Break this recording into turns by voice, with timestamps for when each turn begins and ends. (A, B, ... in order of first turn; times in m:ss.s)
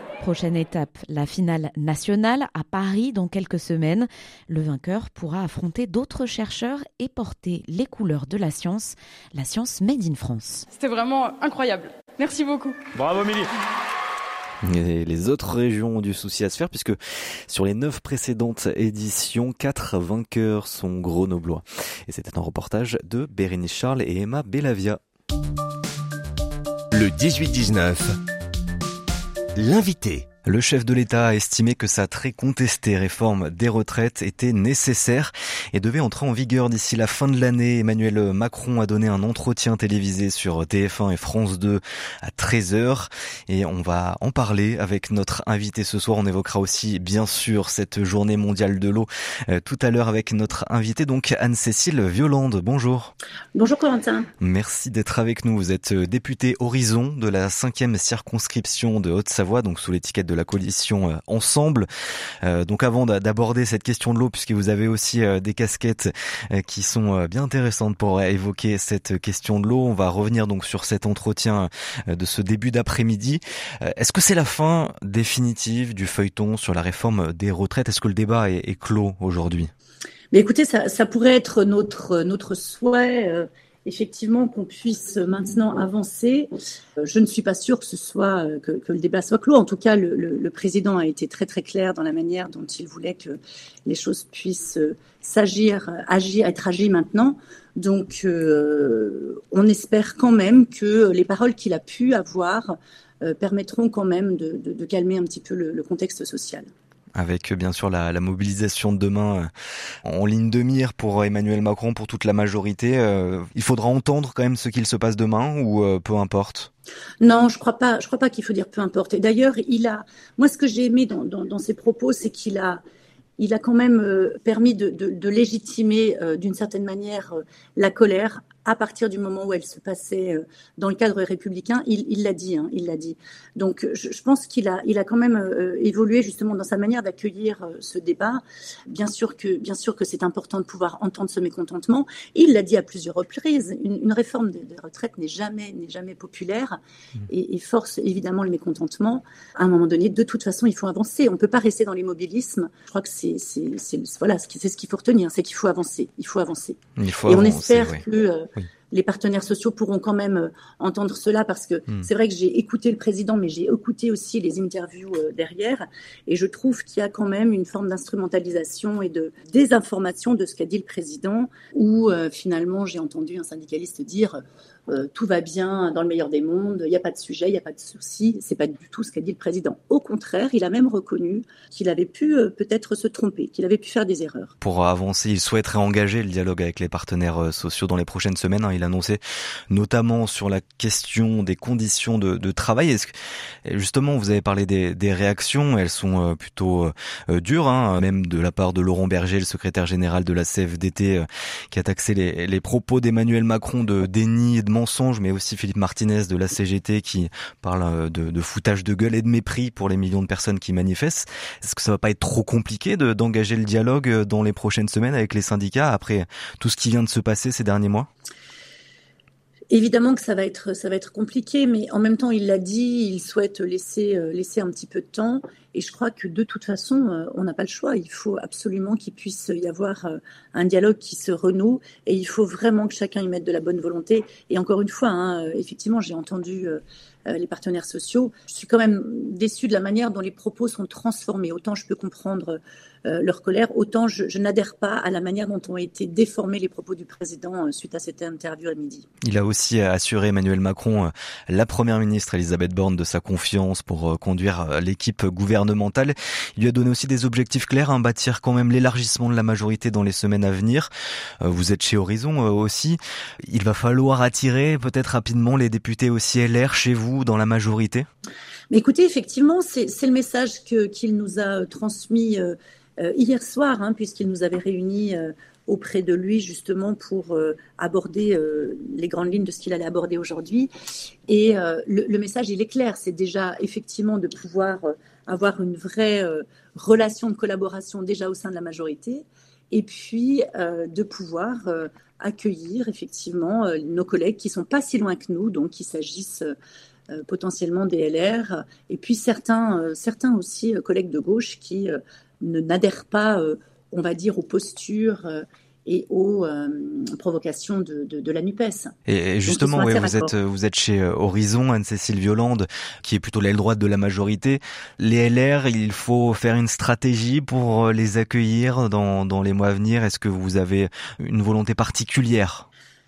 0:00.2-0:10.6 A
0:10.7-0:12.8 B
0:14.6-0:25.0 C
0:26.9-0:28.2 D
0:29.6-0:30.3 D
0:30.4-0:53.1 C
0:53.6-0:54.3 E
0:54.4-1:01.9 C
1:02.4-1:19.7 C
1:20.3-1:26.5 E
1:27.0-1:46.7 E
1:47.2-1:49.5 C
1:50.0-1:56.7 C
1:57.2-2:02.8 E
2:03.4-2:26.8 E
2:27.3-3:04.5 E
2:37.0-2:38.0 C
3:04.6-3:13.1 C
3:13.6-3:38.1 C
3:39.7-4:09.1 E
4:09.2-4:20.9 C
4:21.4-4:28.1 C
4:28.7-4:40.7 E
4:41.3-4:56.6 E
4:57.1-5:08.9 E
5:09.1-5:22.7 C
5:09.5-5:10.3 E